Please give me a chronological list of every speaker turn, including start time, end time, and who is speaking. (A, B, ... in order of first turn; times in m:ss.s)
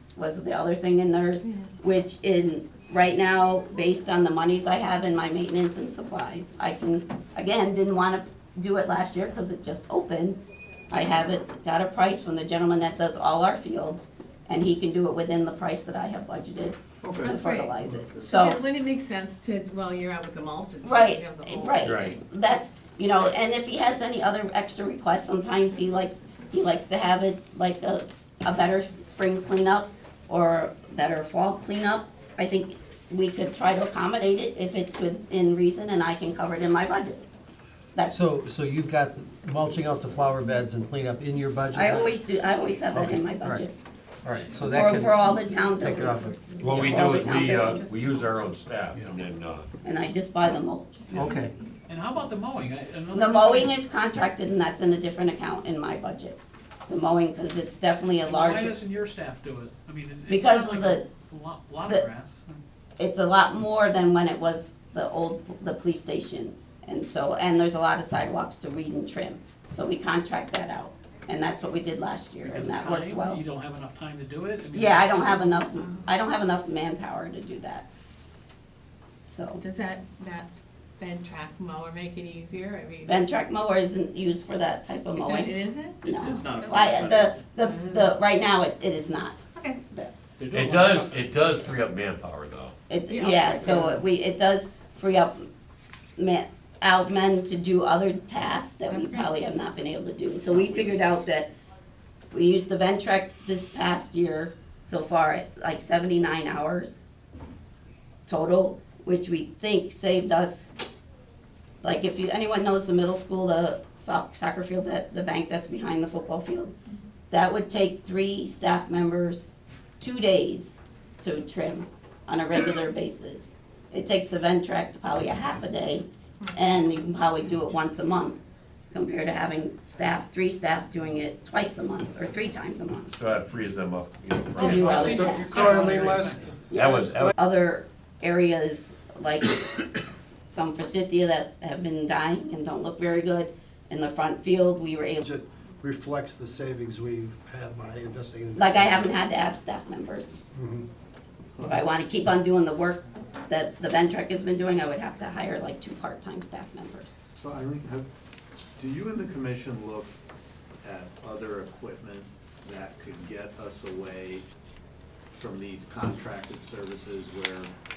0:00.2-0:10.4 A
0:10.9-0:18.6 A
0:17.0-0:18.3 B
0:17.2-0:21.8 C
0:20.8-0:37.2 A
0:21.8-0:22.2 D
0:37.9-0:38.2 A
0:38.1-0:42.1 E
0:41.7-0:43.7 A
0:42.9-0:43.6 E
0:44.2-0:47.0 E
0:44.6-0:47.8 A
0:45.2-0:48.4 C
0:46.6-0:49.7 D
0:49.8-0:51.3 A
0:51.1-0:51.5 C
0:51.1-0:51.5 E
0:51.9-0:53.7 F
0:53.1-0:58.7 A
0:58.2-1:02.6 F
1:00.3-1:01.0 A
1:03.0-1:13.4 A
1:12.4-1:15.6 F
1:14.7-1:17.9 A
1:19.3-1:19.6 A
1:19.6-1:23.1 C
1:23.0-1:29.4 A
1:25.1-1:28.1 C
1:26.2-1:27.2 F
1:29.5-1:29.8 C
1:30.4-1:31.4 F
1:30.5-1:32.7 D
1:32.9-1:35.5 A
1:33.1-1:34.0 C
1:36.2-1:41.5 A
1:38.9-1:39.4 C
1:42.3-1:47.0 A
1:48.3-1:50.7 A
1:51.8-1:56.7 A
1:57.3-2:08.4 A
2:08.9-2:13.1 A
2:13.1-2:15.5 D
2:14.6-2:16.1 A
2:14.6-2:16.6 F
2:15.1-2:16.4 G
2:16.7-2:19.8 A
2:16.7-2:17.3 D
2:20.5-2:25.2 A
2:25.2-2:29.2 G
2:28.6-2:30.3 A
2:30.5-2:30.8 G
2:31.6-2:31.8 B
2:31.6-2:37.1 A
2:37.4-2:38.0 B
2:38.8-2:40.1 B
2:40.8-2:44.4 B
2:45.4-2:47.7 B